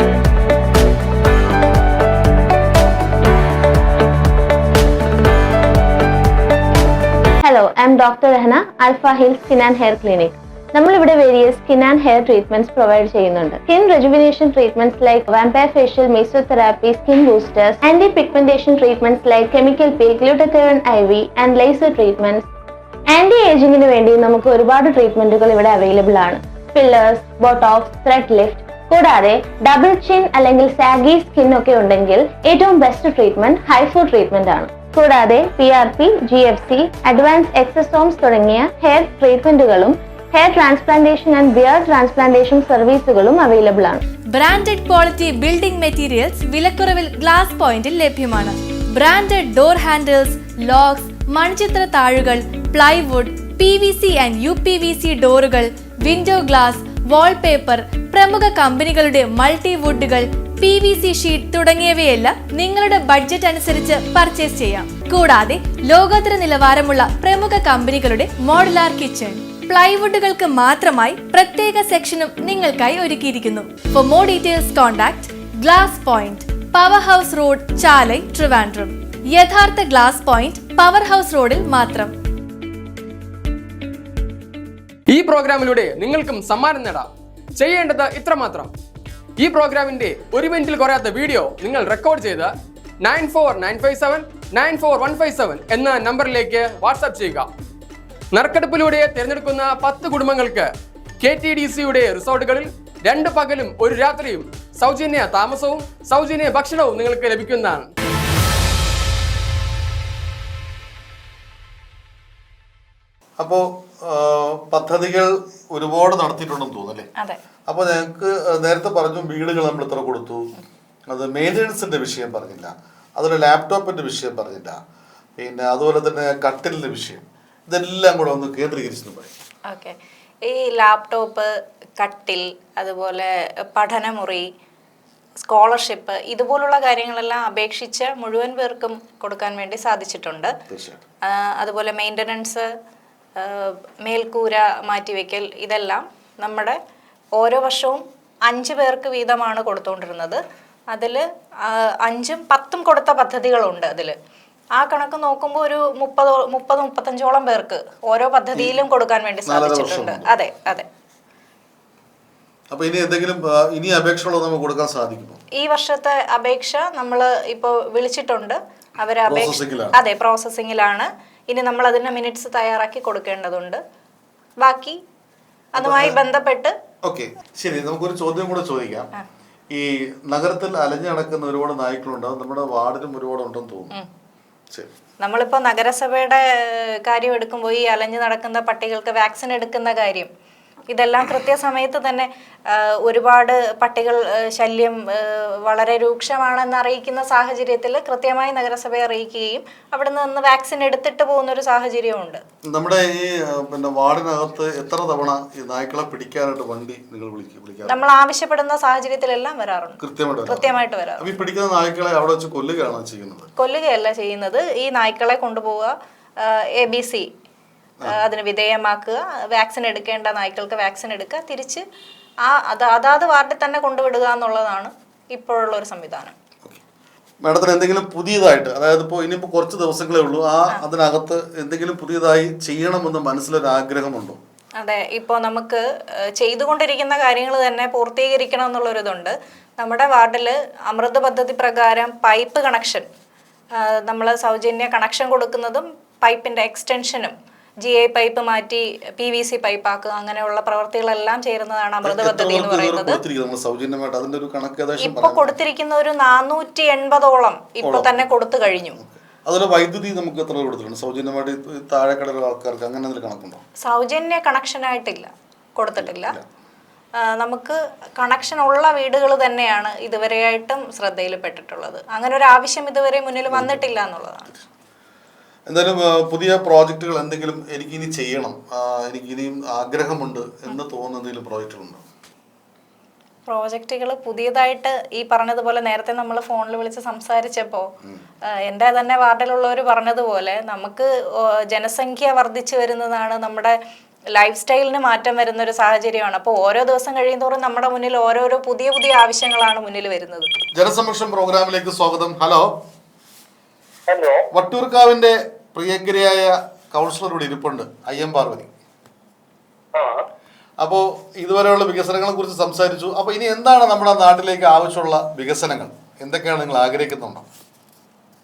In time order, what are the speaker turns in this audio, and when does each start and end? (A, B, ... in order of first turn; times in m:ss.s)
0:07.4-0:22.4 A
0:23.1-0:44.0 A
0:44.3-1:22.1 B
1:25.1-1:28.7 C
1:29.4-1:37.5 C
1:38.3-1:40.7 C
1:41.2-1:47.9 C
1:53.4-1:57.1 D
1:57.7-2:00.5 D
2:01.1-2:04.8 D
2:05.4-2:09.3 D
2:09.7-2:14.5 E
2:15.4-2:20.5 E
2:20.7-2:21.0 D
2:21.3-2:22.7 E
2:23.4-2:26.8 E
2:27.4-2:30.4 E
2:30.9-2:34.2 E
2:34.8-2:40.9 E
2:39.5-2:40.4 D
2:42.7-2:45.4 D
2:45.6-2:53.8 E
2:49.2-2:50.0 D
2:54.6-2:55.0 E
2:55.8-2:56.7 E
2:55.8-2:56.2 D
2:57.0-2:59.1 D
2:59.7-3:03.9 D
3:05.2-3:10.3 E
3:10.9-3:22.4 E
3:22.7-3:28.0 D
3:27.9-3:31.3 E
3:30.0-3:33.5 D
3:33.6-3:37.3 E
3:38.1-3:41.8 E
3:42.4-3:46.3 E
3:47.4-3:54.4 D
3:54.8-4:03.1 E
4:03.8-4:13.2 E
4:12.0-4:15.5 D
4:15.0-4:19.0 E
4:17.8-4:23.6 D
4:23.8-4:26.4 E
4:26.0-4:26.4 D
4:27.2-4:34.5 E
4:33.5-4:33.8 D
4:35.7-4:42.0 D
4:43.5-4:47.9 E
4:48.6-4:53.8 E
4:54.4-5:00.5 E
5:00.7-5:02.8 D
5:04.5-5:08.7 D
5:10.8-5:17.4 D